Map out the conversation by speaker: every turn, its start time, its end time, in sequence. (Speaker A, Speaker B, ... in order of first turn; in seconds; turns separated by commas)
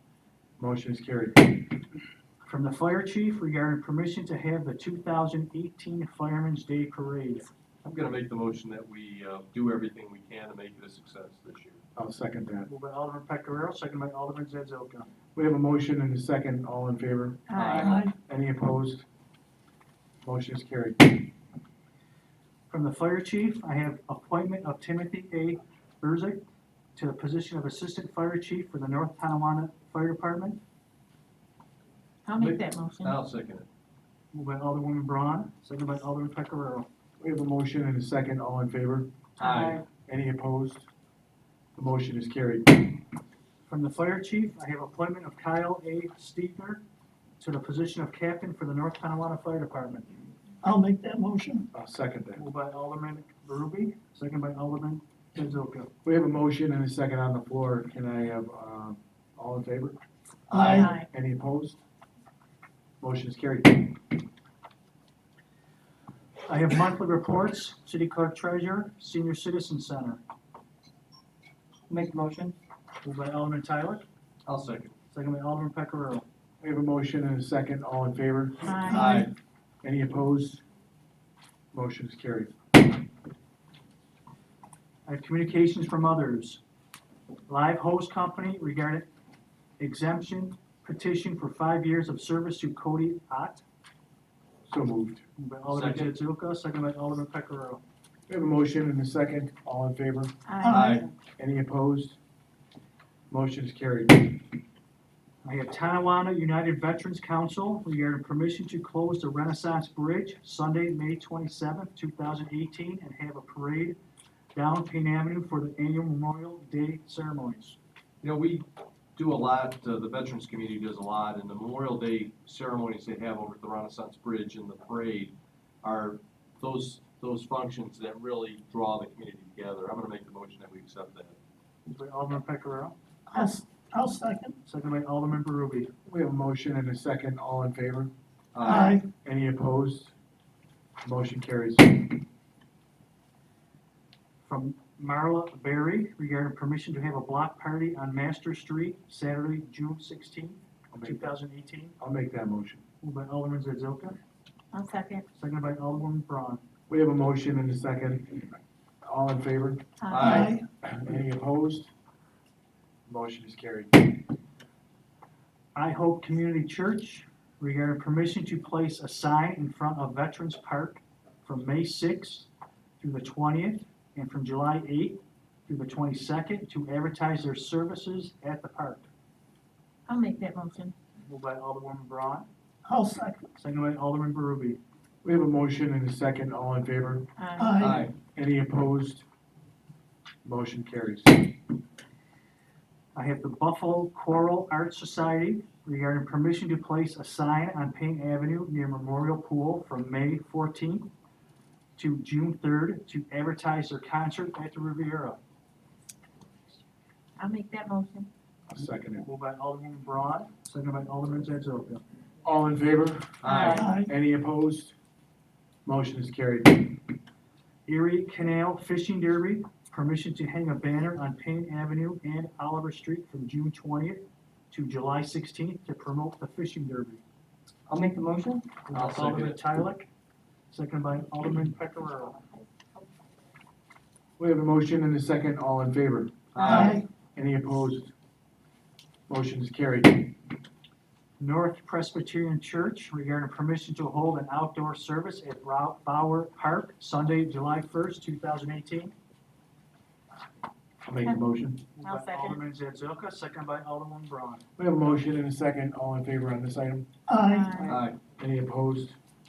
Speaker A: 0.6-1.8, Speaker B: 2.5-7.5, Speaker C: 7.8-11.8, Speaker A: 12.0-12.7, Speaker B: 12.7-15.1, Speaker A: 15.3-19.1, Speaker D: 17.5-18.1, Speaker C: 17.6-17.9, Speaker E: 17.8-18.1, Speaker A: 20.2-21.3, Speaker B: 22.7-26.4, Speaker B: 26.9-30.6, Speaker D: 32.3-33.2, Speaker E: 32.4-33.3, Speaker C: 33.3-33.7, Speaker B: 34.3-36.9, Speaker A: 37.2-39.1, Speaker D: 39.4-39.8, Speaker E: 39.4-39.8, Speaker A: 40.1-40.9, Speaker A: 41.8-43.0, Speaker B: 43.7-46.8, Speaker B: 47.4-50.1, Speaker E: 50.6-51.7, Speaker A: 51.7-52.4, Speaker B: 52.4-55.9, Speaker A: 56.0-60.0, Speaker E: 60.5-60.9, Speaker A: 60.6-61.8, Speaker D: 60.6-61.1, Speaker A: 63.0-64.2, Speaker B: 66.5-70.2, Speaker C: 71.9-72.6, Speaker B: 73.0-74.0, Speaker E: 74.5-74.9, Speaker B: 75.1-76.2, Speaker A: 76.6-79.1, Speaker D: 78.7-79.2, Speaker E: 78.9-79.3, Speaker A: 79.8-80.6, Speaker A: 81.7-82.8, Speaker B: 85.1-86.6, Speaker B: 87.5-89.1, Speaker B: 89.8-93.6, Speaker A: 94.7-95.2, Speaker B: 95.4-97.8, Speaker C: 95.7-96.1, Speaker A: 98.3-100.3, Speaker D: 100.5-101.1, Speaker E: 100.6-101.0, Speaker C: 100.7-101.0, Speaker A: 101.4-102.2, Speaker A: 103.3-104.6, Speaker B: 105.4-114.0, Speaker B: 114.5-117.8, Speaker C: 118.2-118.6, Speaker C: 119.2-131.3, Speaker B: 131.9-133.0, Speaker E: 133.3-134.6, Speaker B: 134.7-135.9, Speaker A: 136.1-138.1, Speaker C: 138.6-139.0, Speaker E: 138.6-139.1, Speaker A: 139.2-140.1, Speaker A: 141.0-142.2, Speaker B: 144.4-152.0, Speaker A: 150.9-151.3, Speaker A: 152.0-152.8, Speaker B: 153.0-154.2, Speaker D: 154.7-155.3, Speaker B: 155.3-156.6, Speaker A: 156.9-161.9, Speaker D: 160.0-160.5, Speaker C: 160.1-160.5, Speaker E: 160.1-160.6, Speaker A: 163.1-164.2, Speaker B: 165.8-172.5, Speaker B: 173.0-179.1, Speaker D: 180.1-180.9, Speaker B: 181.3-182.5, Speaker E: 182.8-183.5, Speaker B: 183.6-184.8, Speaker A: 185.2-187.3, Speaker D: 187.4-187.8, Speaker E: 187.6-188.1, Speaker C: 187.8-188.1, Speaker A: 188.3-189.3, Speaker A: 190.4-191.5, Speaker B: 193.1-201.1, Speaker B: 202.0-205.4, Speaker D: 207.4-208.3, Speaker A: 208.7-209.3, Speaker B: 209.2-212.0, Speaker A: 212.4-215.0, Speaker D: 213.4-214.0, Speaker C: 213.5-213.8, Speaker E: 213.5-214.1, Speaker A: 215.8-217.1, Speaker B: 217.9-227.2, Speaker C: 227.9-229.6, Speaker B: 228.9-230.1, Speaker B: 230.7-232.4, Speaker A: 234.4-238.1, Speaker C: 236.5-237.0, Speaker E: 236.6-237.0, Speaker A: 239.3-240.4, Speaker B: 241.4-249.1, Speaker A: 251.0-251.8, Speaker B: 252.0-254.6, Speaker D: 252.0-252.6, Speaker A: 254.8-257.1, Speaker E: 257.3-258.1, Speaker D: 257.4-258.0, Speaker C: 257.8-258.1, Speaker A: 258.3-259.2